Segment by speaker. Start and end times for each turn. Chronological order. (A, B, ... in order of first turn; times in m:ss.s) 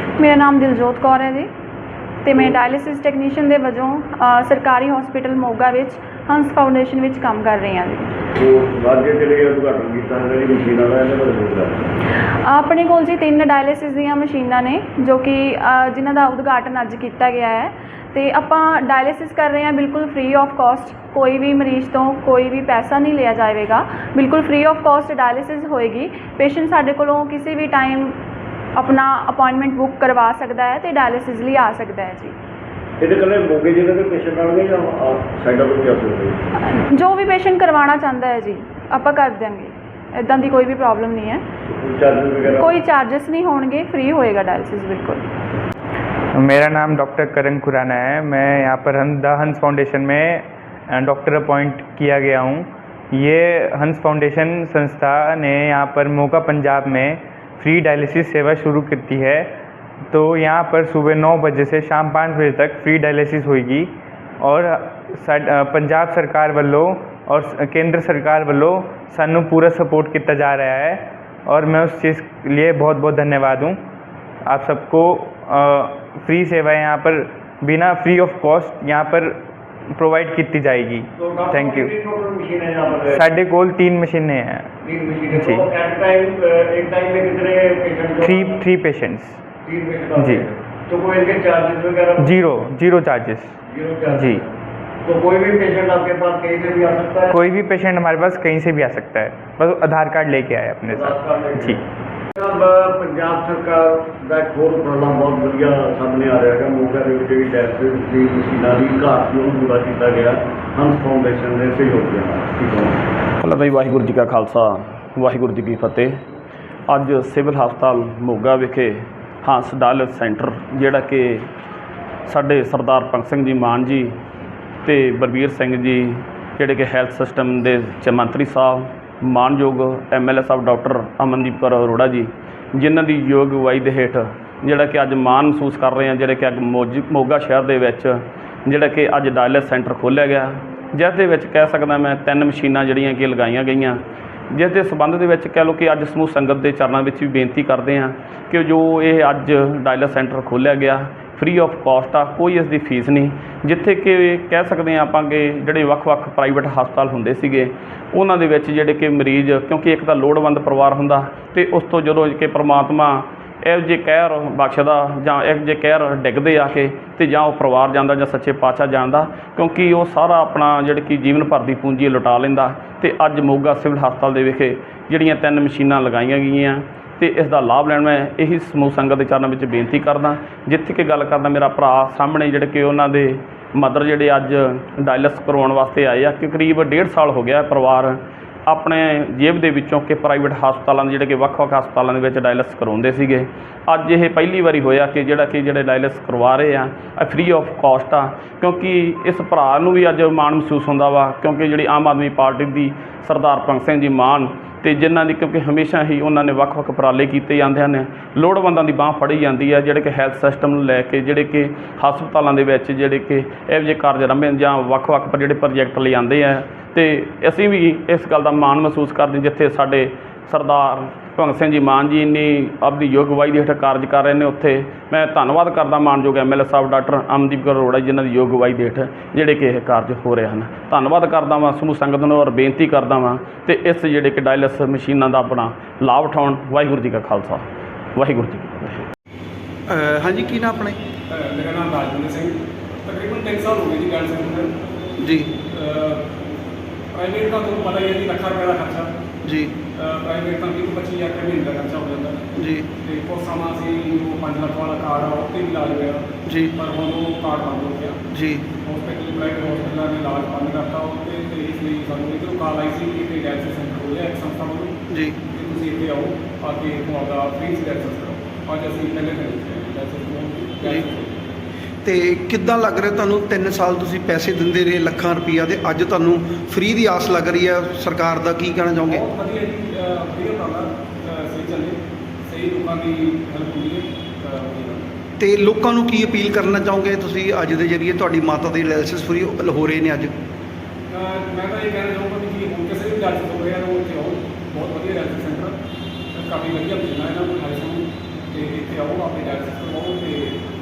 0:00.2-0:01.5 A
0:02.2-0:08.1 A
0:08.4-0:11.9 B
0:12.3-0:28.1 A
0:28.8-0:32.4 A
0:33.0-0:36.4 B
0:36.6-0:41.4 A
0:41.7-0:42.7 B
0:42.6-0:45.2 A
0:46.4-0:59.5 C
1:00.1-1:13.8 C
1:14.5-1:19.4 C
1:20.0-1:21.9 C
1:21.2-1:23.2 B
1:23.1-1:24.8 C
1:24.8-1:28.5 B
1:25.3-1:25.7 C
1:28.2-1:29.4 C
1:29.7-1:32.4 B
1:30.2-1:30.5 C
1:32.2-1:33.6 C
1:33.7-1:34.5 B
1:34.1-1:34.4 C
1:35.0-1:37.4 B
1:37.3-1:41.8 C
1:40.9-1:41.8 B
1:42.4-1:53.0 B
1:53.4-1:56.2 D
1:56.9-2:01.5 D
2:02.3-2:04.1 D
2:04.8-3:57.6 D
3:58.2-3:59.1 D
3:59.9-4:01.0 E
4:01.3-4:04.7 F
4:05.2-4:05.5 E
4:05.6-4:06.3 F
4:07.1-4:09.1 F
4:09.4-4:09.8 E
4:10.0-4:12.5 F
4:12.6-4:12.9 E
4:13.0-4:18.2 F
4:16.5-4:16.8 E
4:18.3-4:18.7 E
4:18.8-4:25.0 F
4:25.1-4:25.4 E
4:25.5-4:31.3 F
4:32.0-4:39.2 E
4:39.1-4:45.0 F
4:45.4-4:50.3 E
4:51.1-4:55.8 F
4:56.4-5:00.6 F